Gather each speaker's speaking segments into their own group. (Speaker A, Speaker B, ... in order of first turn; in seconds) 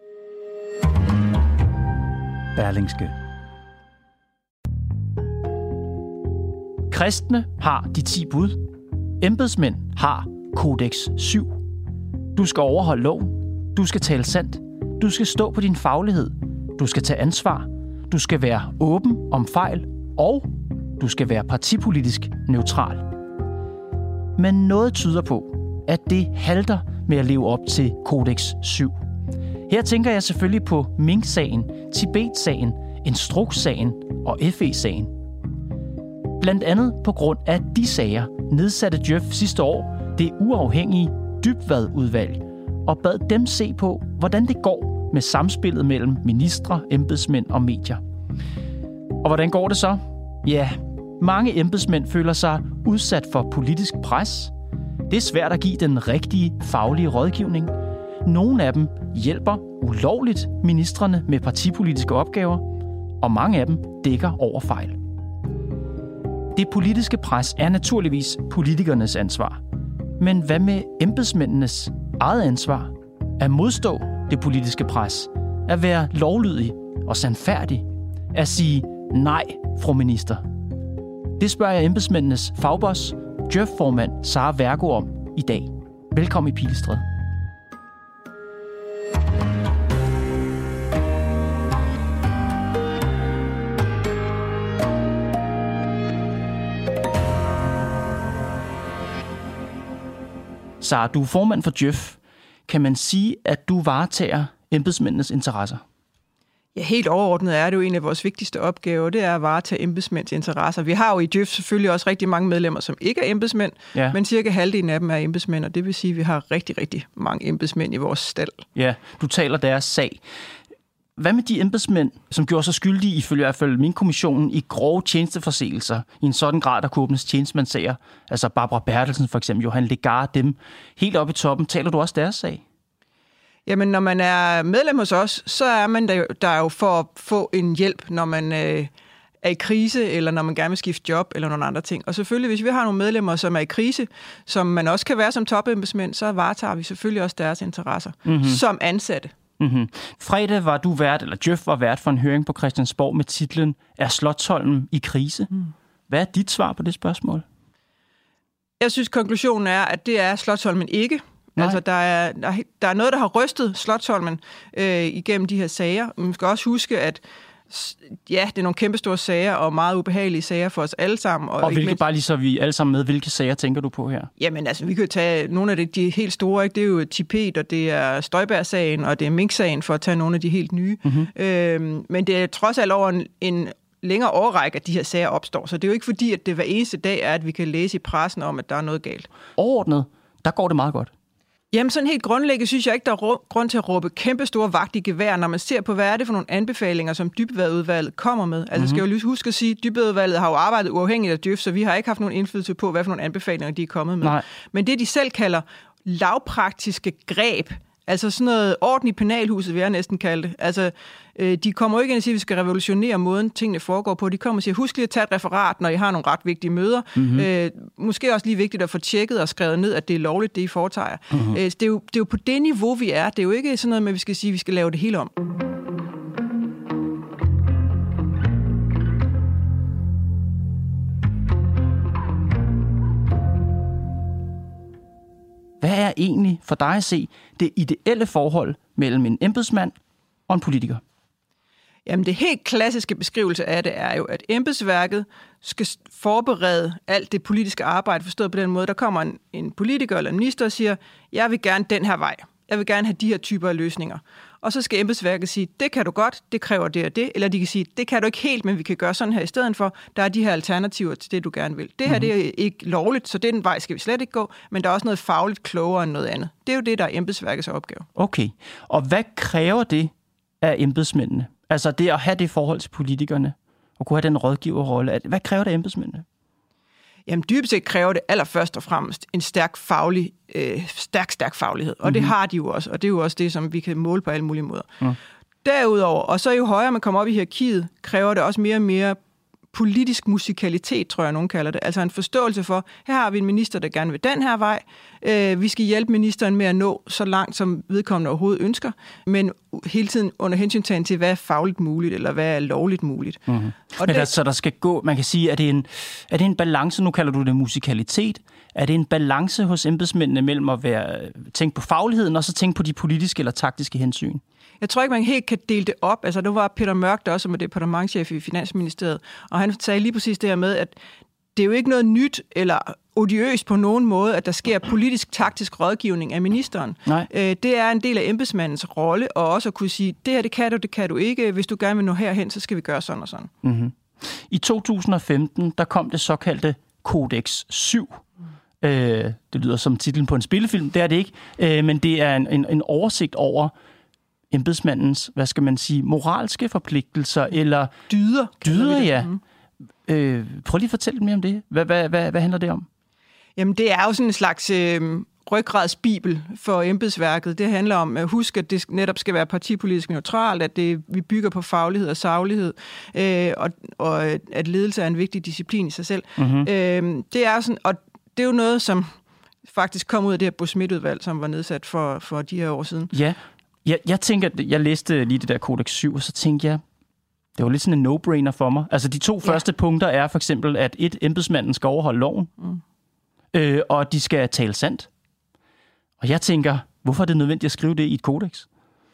Speaker A: 2.5-3.1, 6.9-8.6, 9.2-11.5, 12.3-23.1, 24.4-28.9, 29.7-35.1, 36.4-48.0, 49.2-54.5, 55.1-62.7, 63.2-65.0, 66.5-69.6, 70.2-80.4, 81.4-87.0, 100.8-105.8, 118.8-120.2, 121.2-132.6, 148.2-148.6, 149.6-155.5, 156.1-157.4, 171.6-174.3, 181.0-181.3, 189.5-191.1, 198.8-199.0, 217.2-217.5, 221.3-221.6, 235.8-239.9, 240.5-241.0, 268.1-276.2, 282.1-282.3, 303.5-314.4, 333.6-338.2, 338.8-343.7, 344.5-347.9, 348.6-349.3, 350.1-352.9, 366.4-366.7, 373.1-376.8, 377.6-382.5, 383.5-385.1, 386.2-388.7
Speaker B: 106.8-118.6, 133.7-149.3, 158.8-172.0, 174.4-189.3, 191.7-225.3, 242.1-268.1, 277.3-284.9, 285.6-289.2, 289.7-304.3, 314.8-320.9, 321.6-333.5, 348.1-349.4, 353.6-369.1, 369.6-373.1